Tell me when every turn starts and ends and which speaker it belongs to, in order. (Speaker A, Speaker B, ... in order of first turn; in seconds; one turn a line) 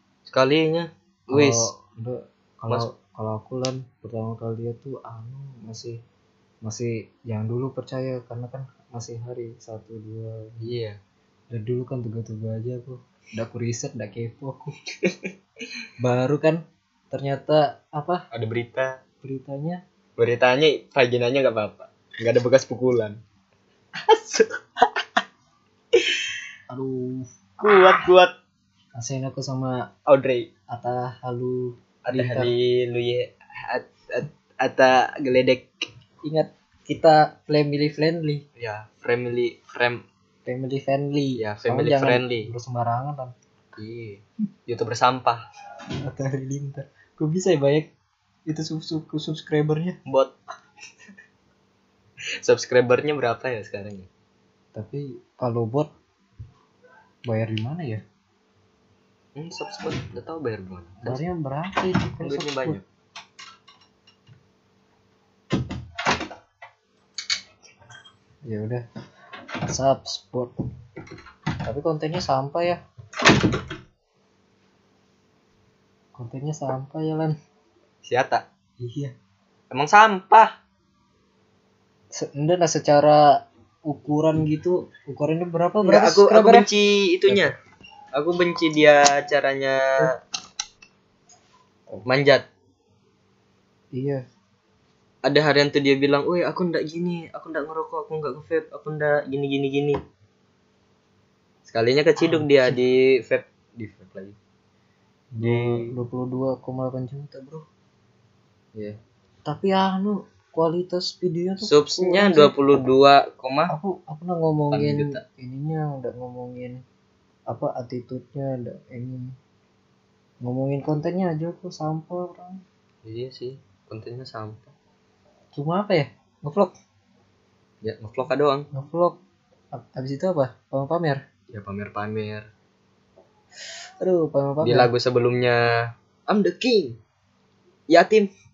Speaker A: 0.3-1.7
Speaker B: 1.3-6.0
Speaker B: 6.6-10.6
Speaker A: 10.6-11.0
Speaker B: 11.5-14.7
Speaker A: 15.0-15.3
Speaker B: 16.0-18.2
Speaker A: 18.3-19.0
Speaker B: 19.2-19.8
Speaker A: 20.2-23.2
Speaker A: 23.9-25.1
Speaker A: 25.9-26.3
Speaker B: 26.7-27.9
Speaker A: 27.6-28.3
Speaker B: 28.9-29.9
Speaker A: 30.1-30.5
Speaker B: 30.7-32.5
Speaker A: 32.0-35.8
Speaker B: 36.2-38.4
Speaker A: 38.5-40.0
Speaker B: 40.5-43.3
Speaker A: 41.4-42.5
Speaker A: 43.8-45.4
Speaker B: 46.0-47.9
Speaker B: 48.5-50.0
Speaker A: 50.0-50.3
Speaker A: 52.4-54.1
Speaker B: 54.7-55.9
Speaker B: 57.3-58.0
Speaker A: 59.4-61.2
Speaker B: 61.0-62.8
Speaker A: 62.2-62.8
Speaker B: 68.5-68.8
Speaker B: 69.7-70.5
Speaker B: 71.6-72.8
Speaker B: 76.1-77.3
Speaker A: 78.0-78.4
Speaker B: 78.8-79.1
Speaker A: 79.7-80.5
Speaker B: 82.1-83.3
Speaker B: 83.8-86.7
Speaker A: 85.8-87.5
Speaker A: 88.1-90.2
Speaker A: 92.0-92.5
Speaker B: 93.9-94.2
Speaker A: 95.2-100.0
Speaker A: 101.7-104.4
Speaker B: 102.2-102.8
Speaker B: 105.3-107.6
Speaker A: 105.4-105.9
Speaker B: 109.5-112.5
Speaker A: 111.6-113.7
Speaker B: 113.7-116.8
Speaker A: 114.7-115.2
Speaker B: 117.5-119.3
Speaker B: 120.4-122.6
Speaker A: 123.0-124.7
Speaker B: 125.5-126.7
Speaker A: 127.8-128.7
Speaker B: 128.7-129.2
Speaker B: 129.7-131.2
Speaker A: 131.5-132.5
Speaker B: 134.0-134.9
Speaker A: 134.6-137.0
Speaker A: 137.9-138.3